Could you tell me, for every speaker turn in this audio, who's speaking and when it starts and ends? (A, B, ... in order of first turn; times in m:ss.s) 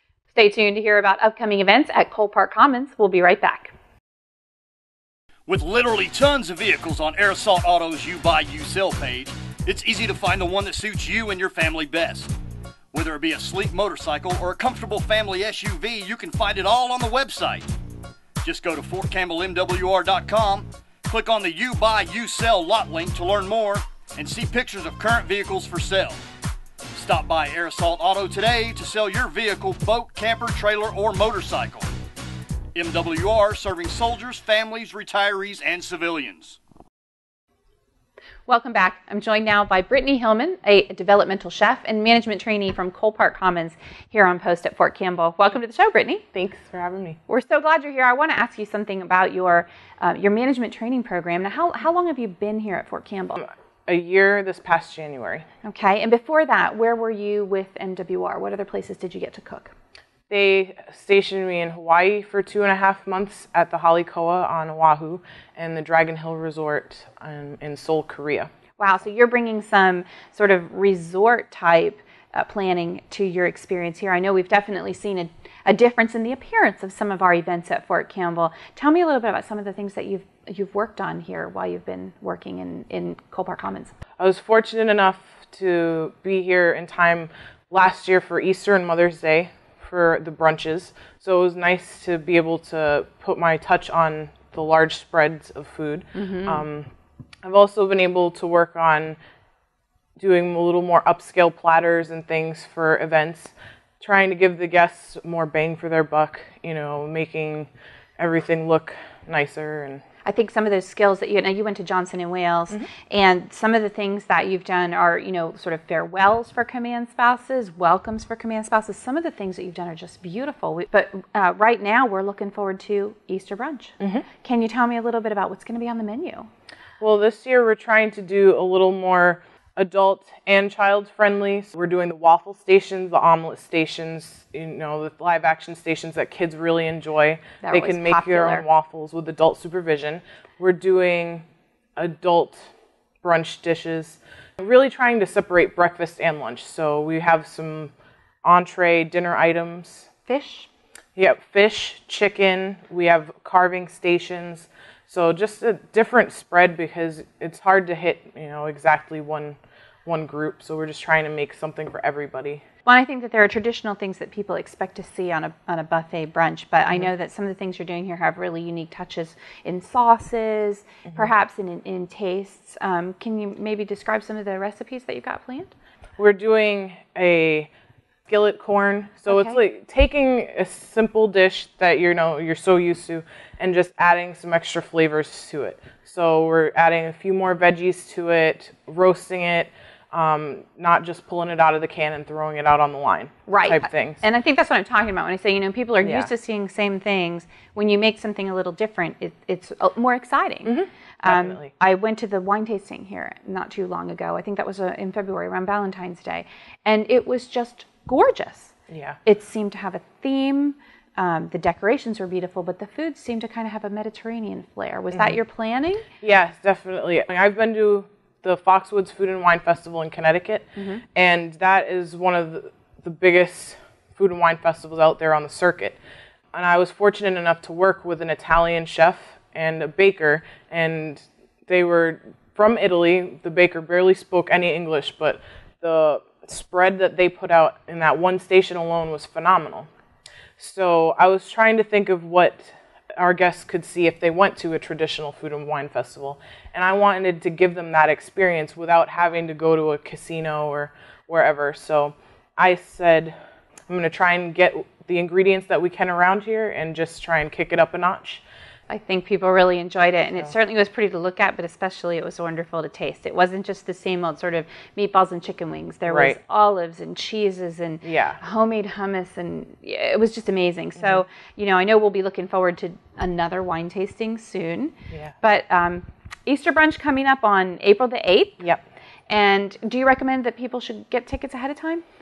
0:00.3-0:03.7 A
0:05.5-0:12.3 B
0:12.9-0:17.7 B
0:18.4-0:26.2 B
0:26.9-0:31.9 B
0:32.8-0:36.6 B
0:38.5-0:46.2 A
0:46.3-0:47.2 C
0:47.3-0:53.4 A
0:53.4-0:55.4 C
0:55.6-0:59.7 A
1:00.3-1:08.5 C
1:08.8-1:23.9 A
1:24.2-1:36.9 C
1:36.1-1:36.7 A
1:37.4-1:39.2 C
1:40.2-1:50.0 C
1:50.2-2:06.5 A
2:04.0-2:04.3 C
2:07.0-2:21.4 C
2:17.6-2:18.6 A
2:22.0-2:22.7 C
2:23.2-2:27.9 C
2:28.4-2:30.1 C
2:30.3-2:30.7 A
2:31.2-2:42.6 C
2:42.9-2:55.7 A
2:56.2-2:57.7 C
2:58.3-3:14.2 C
2:59.3-2:59.6 A
3:13.5-3:28.8 A
3:16.0-3:16.3 C
3:20.6-3:21.7 C
3:28.9-3:29.2 C
3:29.3-3:36.0 A
3:35.1-3:35.4 C
3:36.2-3:46.0 C
3:40.8-3:41.0 A
3:46.5-3:59.9 C
4:00.6-4:13.4 C
4:13.9-4:18.4 C
4:18.9-4:38.6 A
4:26.1-4:26.4 C
4:28.0-4:28.4 C
4:39.3-4:42.0 A